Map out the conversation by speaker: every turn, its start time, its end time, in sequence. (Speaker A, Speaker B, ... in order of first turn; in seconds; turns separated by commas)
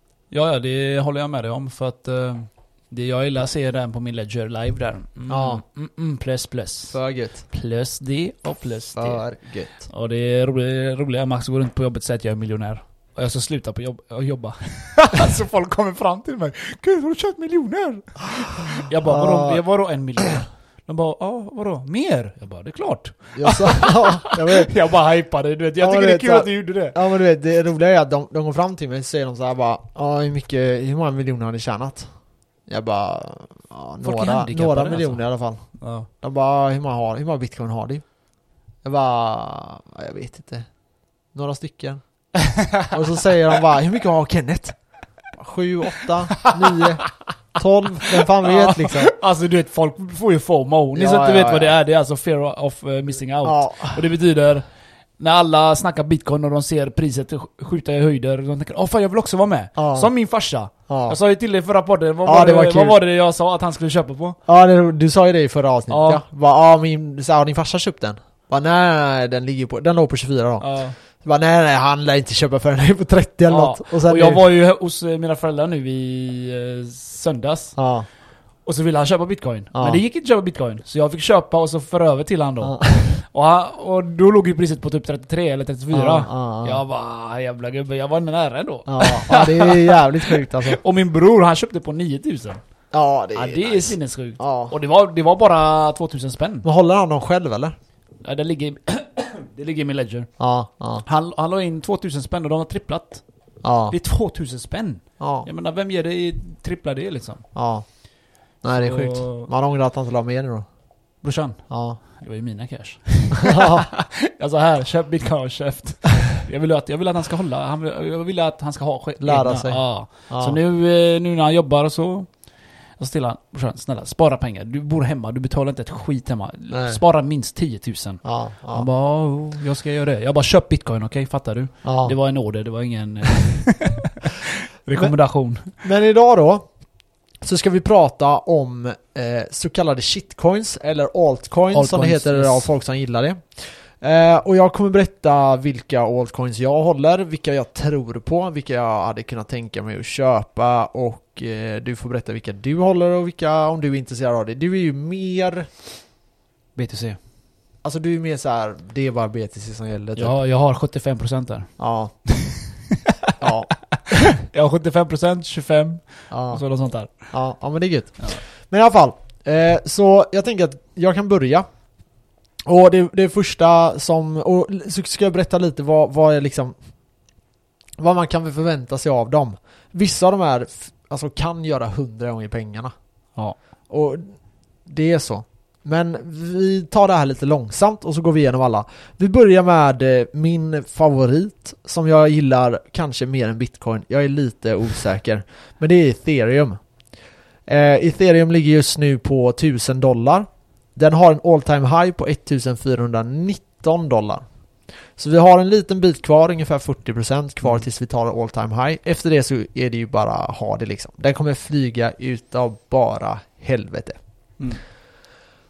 Speaker A: 0.3-27.0, Speaker B: 5.3-5.6, Speaker B: 6.9-7.4, Speaker B: 8.9-9.8, Speaker B: 19.1-19.6, Speaker B: 23.4-24.7, Speaker B: 25.8-38.3, Speaker A: 34.0-36.1, Speaker B: 38.8-49.1, Speaker A: 48.4-64.4, Speaker B: 50.9-51.8, Speaker B: 53.4-54.0, Speaker B: 59.7-60.1, Speaker B: 60.7-61.2, Speaker B: 62.2-63.0, Speaker B: 64.5-74.4, Speaker A: 65.9-66.2, Speaker A: 70.6-71.0, Speaker A: 73.5-92.6, Speaker B: 77.8-78.1, Speaker B: 79.7-80.0, Speaker B: 82.6-83.2, Speaker B: 85.9-86.8, Speaker B: 88.8-90.8, Speaker B: 92.9-94.7, Speaker A: 93.3-96.7, Speaker B: 96.6-97.8, Speaker A: 98.2-100.4, Speaker B: 100.4-101.0, Speaker A: 101.0-103.3, Speaker B: 103.6-104.0, Speaker A: 103.8-107.5, Speaker B: 105.2-105.5, Speaker B: 107.5-111.0, Speaker A: 108.7-109.5, Speaker A: 111.2-135.7, Speaker B: 111.7-112.0, Speaker B: 113.5-113.9, Speaker B: 119.2-120.6, Speaker B: 126.7-127.0, Speaker B: 128.2-128.9, Speaker B: 131.8-132.2, Speaker B: 134.9-155.7, Speaker A: 141.7-142.7, Speaker A: 156.7-157.2, Speaker B: 157.8-160.3, Speaker A: 160.2-162.5, Speaker B: 161.8-162.7, Speaker B: 163.4-164.1, Speaker A: 164.4-167.4, Speaker B: 166.3-177.2, Speaker B: 178.0-182.9, Speaker B: 183.8-214.6